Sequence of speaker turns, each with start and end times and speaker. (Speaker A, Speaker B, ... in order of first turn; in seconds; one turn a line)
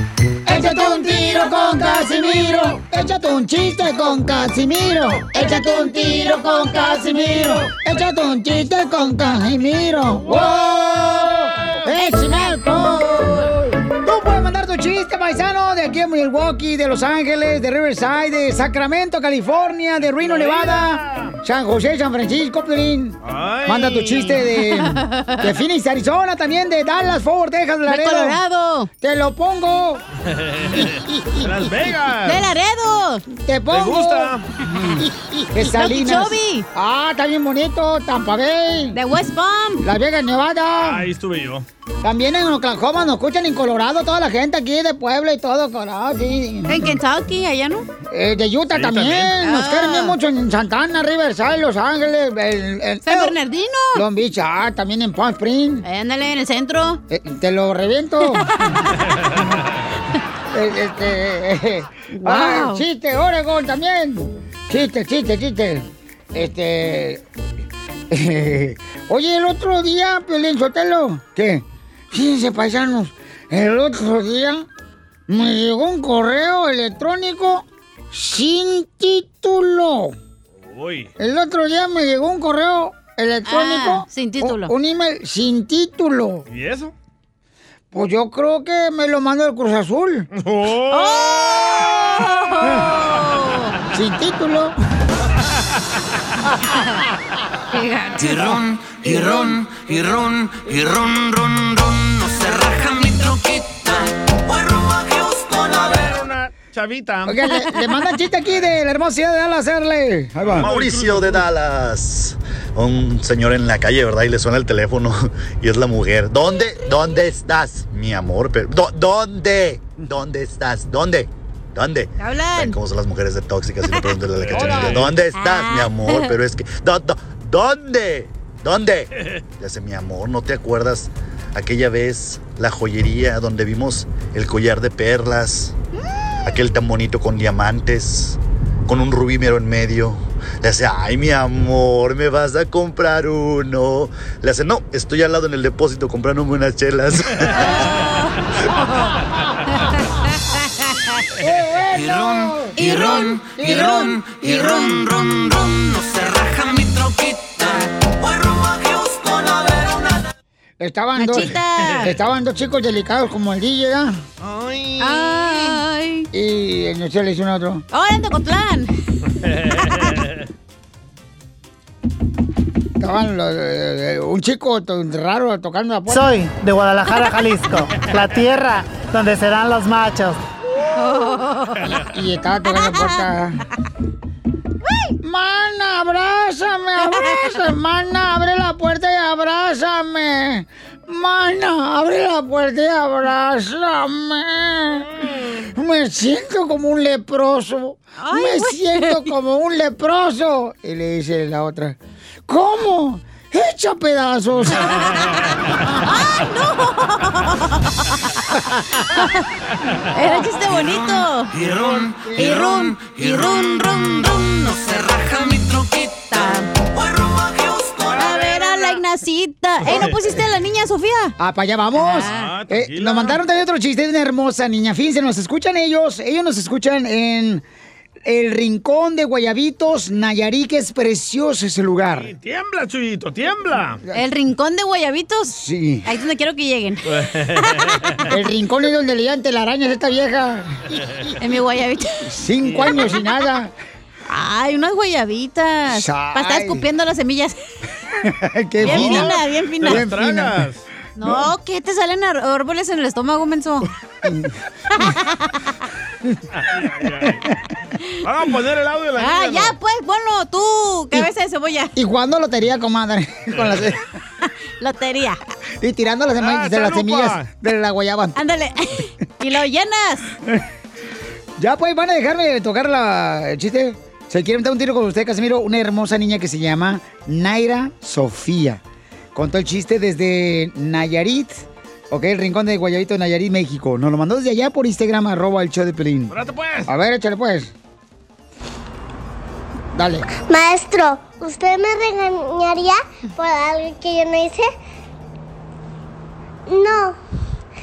Speaker A: 0.5-28.4
Speaker B: 5.4-6.7
Speaker B: 11.9-13.4
Speaker C: 20.2-21.4
Speaker C: 23.2-24.4
Speaker B: 24.7-25.5
Speaker B: 27.9-28.9
Speaker A: 29.0-30.0
Speaker C: 30.4-32.5
Speaker A: 30.8-31.5
Speaker B: 32.2-33.2
Speaker A: 33.3-34.3
Speaker C: 33.7-34.5
Speaker A: 35.0-39.0
Speaker B: 35.6-36.7
Speaker B: 38.9-39.9
Speaker A: 39.8-41.0
Speaker C: 40.8-41.7
Speaker A: 42.0-46.9
Speaker B: 46.7-47.9
Speaker A: 48.1-53.4
Speaker C: 48.7-49.4
Speaker B: 49.4-50.2
Speaker B: 53.0-54.0
Speaker A: 53.9-55.9
Speaker B: 55.8-57.0
Speaker A: 57.1-58.6
Speaker B: 58.2-58.9
Speaker A: 60.5-67.2
Speaker B: 62.1-62.9
Speaker A: 68.1-74.7
Speaker A: 75.3-80.2
Speaker C: 80.7-81.1
Speaker A: 81.2-86.4
Speaker B: 83.5-84.7
Speaker C: 86.5-86.9
Speaker A: 87.9-90.3
Speaker C: 90.4-91.7
Speaker B: 90.9-93.7
Speaker A: 93.9-94.7
Speaker B: 97.7-98.3
Speaker D: 98.2-106.1
Speaker C: 105.8-107.4
Speaker A: 107.2-110.7
Speaker B: 107.6-108.1
Speaker C: 110.5-111.5
Speaker E: 110.6-135.7
Speaker B: 122.2-122.8
Speaker C: 124.4-125.1
Speaker A: 124.6-124.9
Speaker B: 125.3-126.3
Speaker E: 136.4-147.5
Speaker B: 147.5-149.1
Speaker A: 151.4-155.0
Speaker D: 151.9-160.2
Speaker B: 152.8-153.4
Speaker A: 160.8-164.2
Speaker B: 161.2-162.1
Speaker C: 164.4-165.7
Speaker B: 165.0-166.3
Speaker A: 166.3-167.8
Speaker B: 167.9-168.9
Speaker A: 173.0-176.3
Speaker F: 176.1-180.4
Speaker B: 180.9-181.9
Speaker A: 181.9-183.6
Speaker B: 182.7-183.4
Speaker B: 184.8-185.1
Speaker A: 185.2-195.1
Speaker B: 187.0-187.6
Speaker A: 195.7-204.9
Speaker B: 198.2-199.3
Speaker B: 204.8-205.3
Speaker B: 206.0-209.4
Speaker B: 210.1-211.5
Speaker D: 210.7-218.7
Speaker A: 212.3-212.6
Speaker B: 212.4-214.3
Speaker B: 216.3-216.7
Speaker B: 218.2-221.3
Speaker C: 219.8-220.4
Speaker A: 221.4-227.6
Speaker B: 221.9-222.5
Speaker C: 222.2-223.4
Speaker A: 228.2-232.3
Speaker C: 232.2-234.0
Speaker B: 234.1-235.5
Speaker A: 235.5-236.1
Speaker B: 236.1-237.0
Speaker C: 237.1-238.0
Speaker A: 238.3-240.8
Speaker B: 241.4-242.3
Speaker A: 242.3-243.7
Speaker C: 242.6-243.2
Speaker B: 244.3-247.6
Speaker A: 245.9-246.9
Speaker A: 248.2-250.6
Speaker C: 248.8-250.9
Speaker B: 248.8-250.0
Speaker B: 251.2-253.9
Speaker A: 254.2-254.6
Speaker B: 255.0-255.5
Speaker C: 256.6-257.4
Speaker C: 258.2-259.8
Speaker B: 259.2-261.9
Speaker A: 261.9-264.0
Speaker B: 264.8-265.4
Speaker A: 265.8-268.4
Speaker C: 266.4-267.5
Speaker B: 268.4-270.3
Speaker A: 271.6-278.8
Speaker A: 279.4-287.7
Speaker C: 286.3-286.9
Speaker A: 289.9-290.3
Speaker G: 290.5-294.7
Speaker G: 296.7-297.2